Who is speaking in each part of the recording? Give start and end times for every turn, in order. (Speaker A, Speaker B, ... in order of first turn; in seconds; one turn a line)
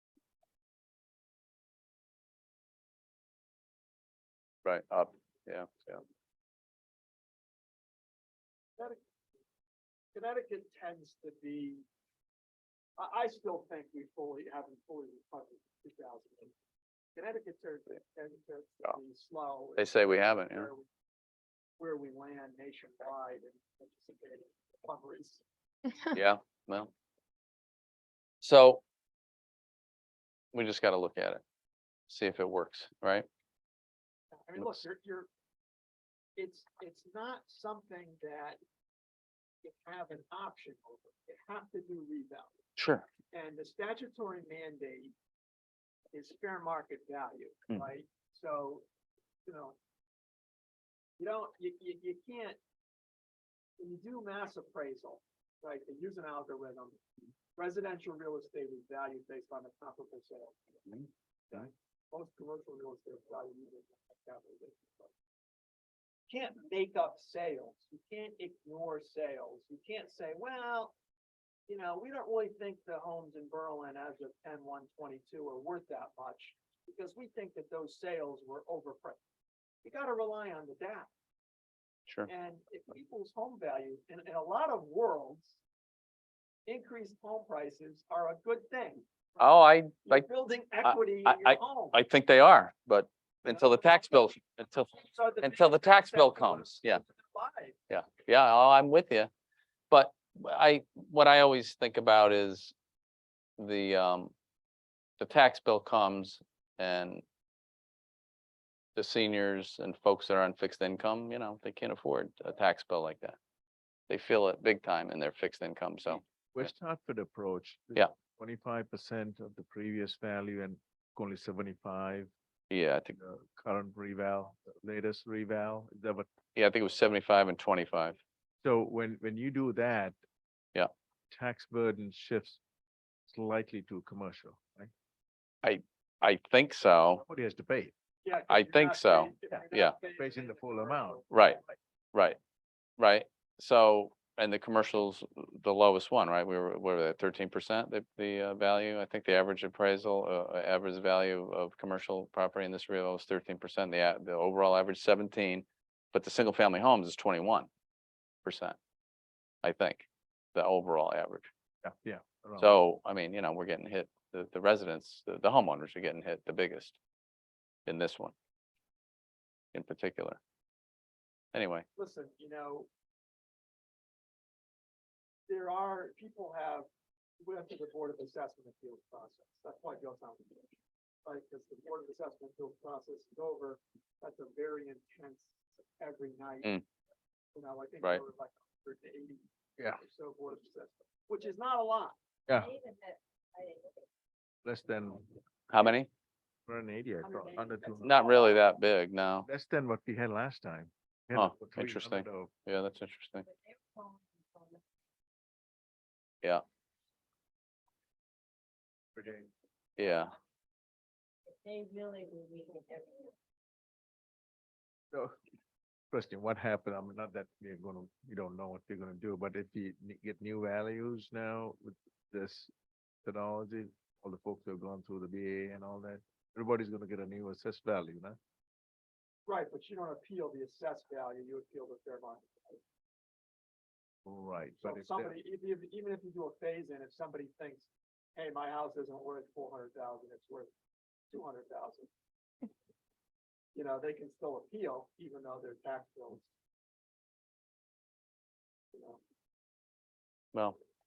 Speaker A: 4.6-6.0
Speaker B: 10.1-11.8
Speaker B: 13.0-16.6
Speaker B: 17.1-20.9
Speaker A: 19.8-20.7
Speaker B: 21.8-25.4
Speaker A: 26.1-26.9
Speaker A: 28.4-28.8
Speaker A: 30.5-31.4
Speaker A: 32.1-33.2
Speaker B: 34.3-35.3
Speaker A: 34.5-34.8
Speaker B: 36.4-38.6
Speaker B: 39.6-42.6
Speaker A: 42.8-43.1
Speaker B: 43.3-45.1
Speaker B: 46.1-48.8
Speaker B: 49.5-49.8
Speaker B: 51.2-52.6
Speaker B: 53.8-57.0
Speaker B: 57.5-65.1
Speaker B: 66.3-70.9
Speaker B: 71.7-79.2
Speaker B: 79.8-81.1
Speaker B: 82.2-85.6
Speaker B: 86.7-92.0
Speaker A: 89.4-90.3
Speaker A: 90.8-97.0
Speaker B: 93.4-94.3
Speaker B: 94.9-97.8
Speaker A: 97.9-99.3
Speaker A: 99.9-102.7
Speaker A: 103.6-104.3
Speaker A: 105.2-107.2
Speaker A: 109.0-113.4
Speaker A: 114.1-116.7
Speaker C: 116.5-122.3
Speaker A: 122.7-123.2
Speaker C: 123.2-126.3
Speaker A: 126.5-128.2
Speaker C: 128.6-130.2
Speaker C: 131.3-132.6
Speaker C: 133.3-134.9
Speaker A: 135.6-137.2
Speaker C: 137.2-137.9
Speaker B: 138.2-141.7
Speaker A: 138.5-140.0
Speaker C: 139.5-141.2
Speaker A: 141.3-141.6
Speaker A: 143.0-157.7
Speaker A: 158.4-158.8
Speaker A: 159.6-161.5
Speaker C: 161.8-162.7
Speaker A: 162.6-167.0
Speaker A: 167.9-168.3
Speaker A: 169.7-170.4
Speaker A: 171.5-171.9
Speaker B: 172.0-172.9
Speaker B: 175.5-176.9
Speaker B: 177.4-180.7
Speaker B: 181.2-186.8
Speaker B: 187.5-192.2
Speaker D: 192.5-194.1
Speaker C: 194.7-195.3
Speaker A: 195.7-196.1
Speaker C: 196.7-198.1
Speaker B: 197.2-198.7
Speaker A: 198.0-199.5
Speaker C: 199.4-202.5
Speaker A: 201.3-203.5
Speaker D: 203.4-204.8
Speaker C: 209.2-209.5
Speaker A: 210.0-210.3
Speaker D: 211.5-213.3
Speaker C: 216.1-222.7
Speaker C: 223.2-228.4
Speaker B: 229.5-232.8
Speaker C: 234.2-235.3
Speaker B: 234.8-240.7
Speaker B: 241.3-242.1
Speaker B: 243.7-246.5
Speaker B: 248.9-249.2